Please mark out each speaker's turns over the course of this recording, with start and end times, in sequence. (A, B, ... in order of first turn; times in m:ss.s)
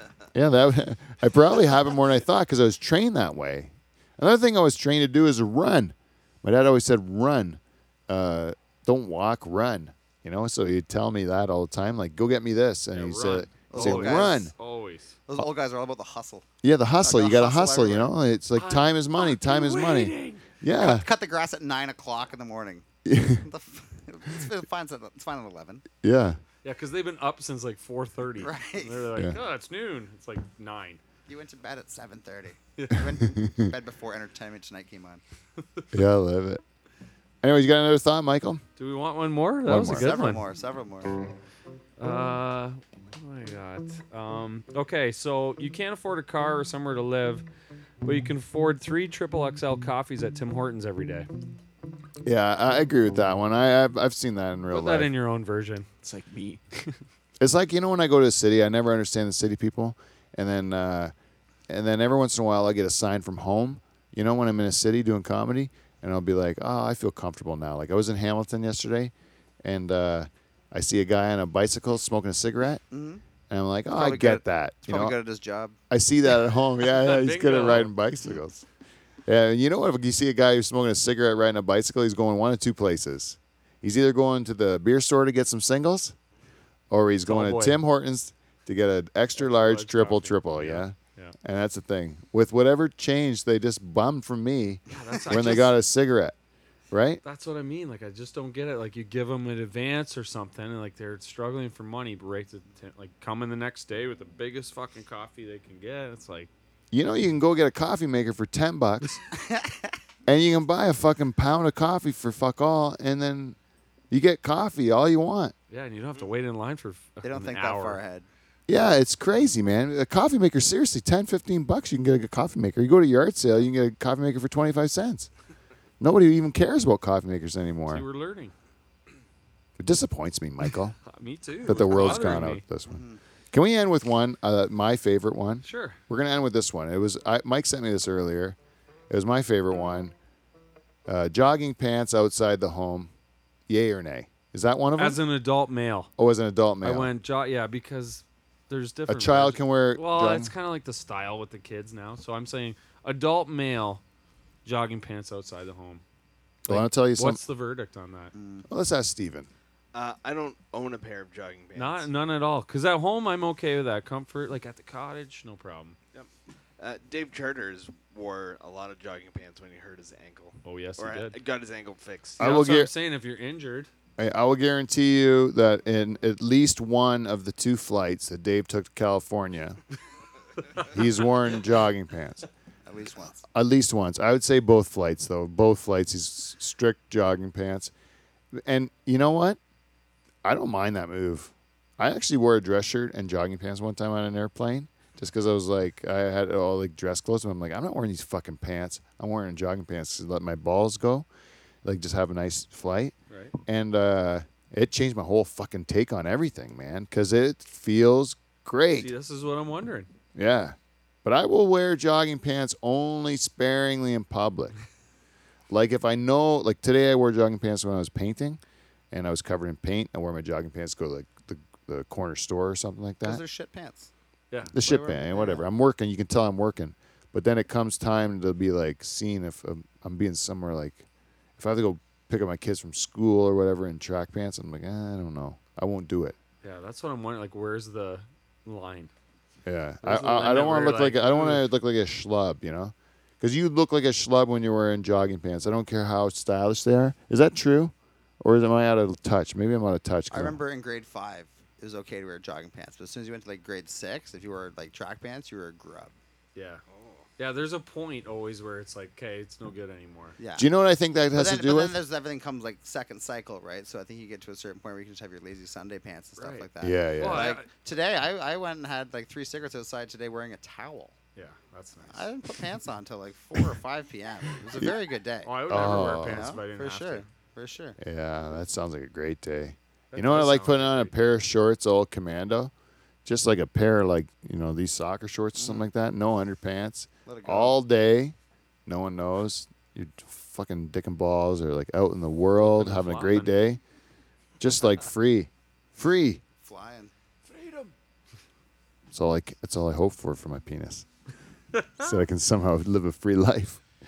0:00.3-0:14.5 A
0:12.9-0:15.1 B
0:13.7-0:14.4 C
0:15.3-0:16.4 C
0:16.6-0:21.1 A
0:17.0-0:18.1 C
0:18.6-0:20.4 B
0:20.8-0:22.8 C
0:23.0-0:23.4 A
0:23.4-0:25.9 C
0:26.0-0:26.4 A
0:26.6-0:31.0 B
0:28.4-0:29.1 C
0:31.3-0:35.2 C
0:32.8-0:33.1 B
0:33.4-0:33.7 A
0:35.9-0:36.6 A
0:37.4-0:38.6 A
0:38.8-0:40.4 B
0:39.7-0:40.1 A
0:39.9-0:41.1 C
0:42.0-0:47.4 B
0:48.0-0:51.3 B
0:52.2-0:55.1 A
0:54.7-0:55.9 B
0:56.0-0:56.6 D
0:57.4-1:01.1 A
1:01.7-1:12.8 A
1:12.9-1:13.2 C
1:13.5-1:15.2 A
1:13.9-1:15.8 C
1:15.9-1:18.7 A
1:16.9-1:17.9 B
1:19.3-1:26.2 A
1:26.9-1:36.4 A
1:27.3-1:27.8 B
1:29.4-1:31.4 B
1:34.9-1:35.8 B
1:36.9-1:37.2 A
1:37.2-1:46.5 B
1:46.9-1:49.2 A
1:49.3-1:49.9 C
1:50.3-1:53.6 A
1:54.1-1:55.5 A
1:55.7-1:58.0 B
1:57.2-1:58.3 C
1:58.7-2:05.3 A
2:06.0-2:08.0 A
2:07.9-2:08.5 B
2:09.8-2:11.0 A
2:11.1-2:12.6 B
2:11.6-2:18.6 A
2:12.9-2:13.2 C
2:15.6-2:16.0 B
2:19.1-2:20.1 A
2:21.1-2:23.1 A
2:23.7-2:25.2 A
2:25.0-2:26.1 B
2:26.2-2:27.1 A
2:26.8-2:34.0 B
2:29.1-2:30.5 A
2:34.6-2:36.0 B
2:36.6-2:37.4 A
2:36.7-2:38.3 B
2:38.3-2:38.7 C
2:38.7-2:39.5 A
2:40.0-2:42.0 D
2:41.8-2:46.0 B
2:46.8-2:48.8 D
2:49.4-2:52.4 D
2:50.6-2:51.4 B
2:52.4-2:52.9 A
2:52.4-2:53.9 B
2:54.2-2:59.8 A
3:00.9-3:02.4 A
3:02.9-3:03.4 C
3:03.5-3:07.9 A
3:08.5-3:09.6 A
3:10.4-3:21.3 A
3:21.8-3:23.1 A
3:23.6-3:29.1 A
3:28.9-3:30.1 B
3:30.4-3:34.8 A
3:35.7-3:43.4 A
3:43.2-3:44.1 C
3:44.7-3:51.0 A
3:44.8-3:45.6 C
3:51.6-3:56.4 A
3:56.6-3:59.1 B
3:59.6-4:10.6 A
4:00.0-4:01.6 B
4:10.3-4:16.1 C
4:16.6-4:16.8 B
4:17.4-4:20.4 B
4:20.4-4:20.7 C
4:20.6-4:22.0 A
4:21.3-4:31.2 C
4:26.4-4:27.7 B
4:26.8-4:27.6 A
4:31.4-4:32.3 B
4:32.1-4:38.0 C
4:35.4-4:37.3 B
4:35.7-4:36.6 A
4:38.0-4:42.7 A
4:40.1-4:41.1 B
4:43.2-4:48.4 A
4:45.6-4:45.9 C
4:47.3-4:47.8 C
4:48.9-4:53.8 A
4:52.7-4:53.5 B
4:54.6-4:56.4 A
4:56.6-4:57.1 C
4:57.6-4:57.9 B
4:59.1-5:01.1 A
5:02.0-5:03.8 A